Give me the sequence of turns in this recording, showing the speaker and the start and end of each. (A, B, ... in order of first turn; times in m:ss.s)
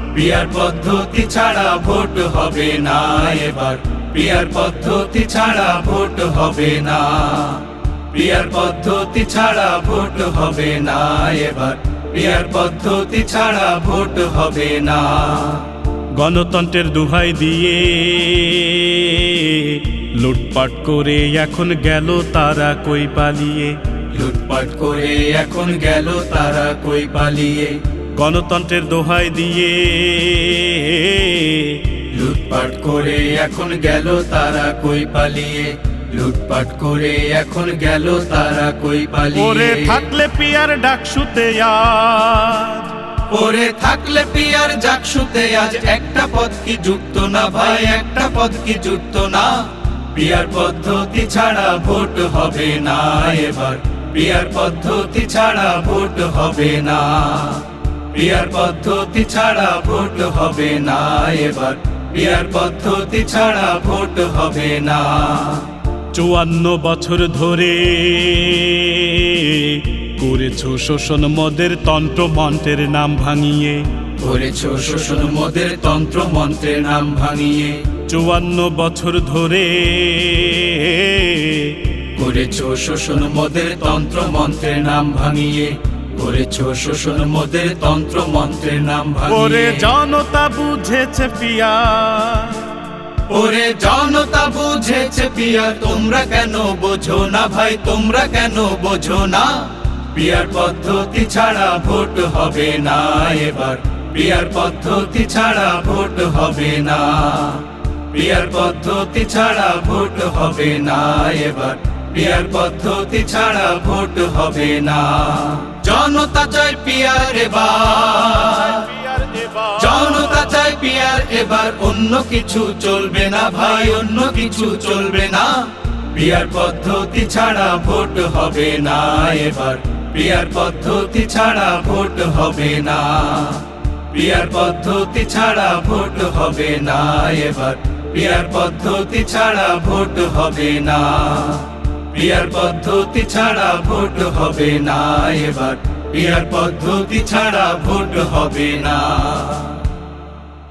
0:00.1-0:15.6 A
0:16.2-0:23.8 B
0:24.1-0:27.8 A
0:28.2-0:31.8 B
0:32.1-0:40.0 A
0:39.3-0:42.9 B
0:43.3-0:49.6 A
0:50.1-1:05.7 A
1:06.1-1:13.8 B
1:14.2-1:17.8 A
1:18.1-1:21.8 B
1:22.2-1:29.9 A
1:29.3-1:32.7 B
1:33.3-1:58.8 A
1:58.5-2:00.4 B
1:59.8-2:05.5 A
2:06.1-2:29.8 A